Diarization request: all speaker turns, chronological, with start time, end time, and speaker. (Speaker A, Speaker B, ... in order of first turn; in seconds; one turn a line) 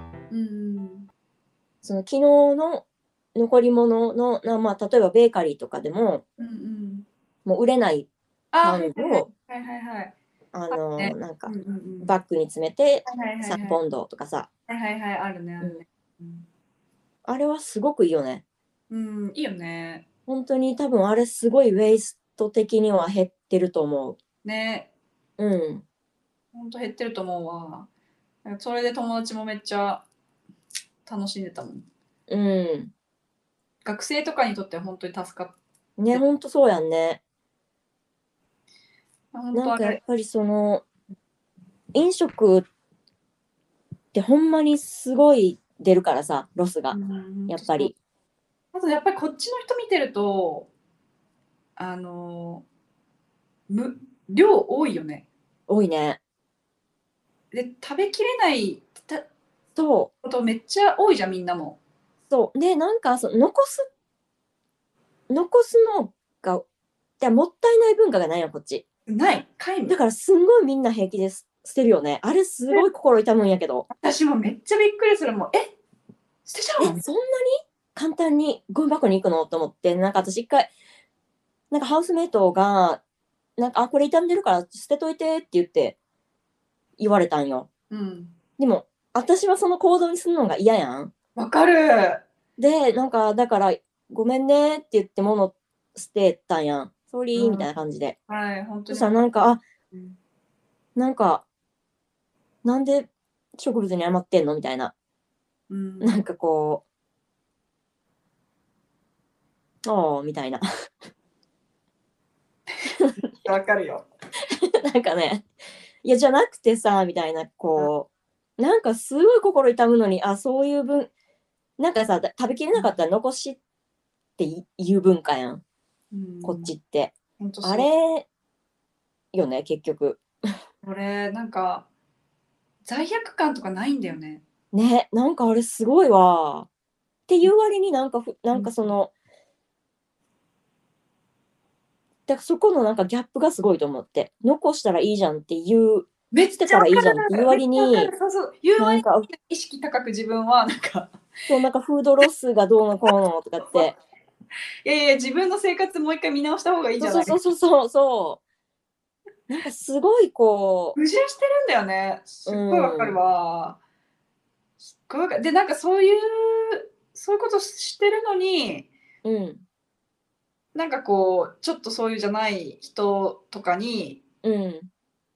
Speaker A: 0.3-1.1
Speaker B: 1.8-6.2
Speaker A: 6.4-7.1
Speaker B: 7.4-8.1
Speaker A: 8.5-10.1
Speaker B: 8.6-9.3
Speaker B: 10.5-14.5
Speaker A: 10.7-12.2
Speaker A: 13.1-13.8
Speaker A: 14.7-16.4
Speaker B: 17.2-18.4
Speaker A: 18.9-20.1
Speaker B: 20.3-24.2
Speaker A: 24.4-24.9
Speaker B: 25.4-25.8
Speaker A: 26.5-27.9
Speaker A: 28.4-30.0
Speaker A: 31.1-31.8
Speaker B: 32.3-32.9
Speaker A: 33.8-35.5
Speaker B: 36.0-37.2
Speaker A: 39.3-40.0
Speaker B: 39.5-40.8
Speaker B: 41.9-42.6
Speaker B: 44.1-47.0
Speaker A: 46.9-47.9
Speaker B: 47.5-47.9
Speaker A: 48.7-50.7
Speaker A: 51.8-52.6
Speaker A: 53.7-55.3
Speaker B: 55.7-56.2
Speaker A: 57.5-59.2
Speaker B: 59.8-60.1
Speaker A: 60.2-61.8
Speaker B: 62.3-63.9
Speaker B: 65.3-66.6
Speaker B: 67.2-68.8
Speaker A: 69.1-70.0
Speaker B: 69.9-73.9
Speaker A: 73.9-75.7
Speaker A: 76.5-77.0
Speaker B: 76.8-80.7
Speaker B: 81.7-83.0
Speaker B: 83.6-86.0
Speaker B: 87.0-87.7
Speaker A: 87.9-88.3
Speaker B: 88.6-91.1
Speaker A: 91.3-92.2
Speaker B: 92.6-98.2
Speaker A: 97.3-97.7
Speaker A: 98.3-99.3
Speaker B: 98.9-99.6
Speaker A: 99.9-100.2
Speaker B: 101.0-101.4
Speaker B: 102.6-104.9
Speaker A: 105.7-106.2
Speaker B: 106.0-106.8
Speaker B: 109.8-110.6
Speaker A: 112.8-114.1
Speaker B: 114.8-115.5
Speaker B: 116.0-121.1
Speaker B: 121.8-123.6
Speaker B: 124.4-125.6
Speaker A: 126.1-126.7
Speaker B: 126.4-128.2
Speaker A: 127.4-127.9
Speaker B: 129.3-130.2
Speaker A: 130.8-131.9
Speaker A: 132.8-134.4
Speaker B: 134.7-136.7
Speaker B: 137.3-139.1
Speaker A: 138.5-138.9
Speaker B: 142.3-148.1
Speaker A: 146.3-151.2
Speaker B: 148.8-149.3
Speaker B: 151.5-153.9
Speaker A: 153.7-153.9
Speaker A: 154.8-157.4
Speaker B: 157.0-158.4
Speaker B: 159.5-161.0
Speaker A: 160.9-163.8
Speaker B: 162.4-163.2
Speaker A: 164.8-168.9
Speaker B: 169.2-169.6
Speaker A: 170.7-174.2
Speaker B: 174.4-174.9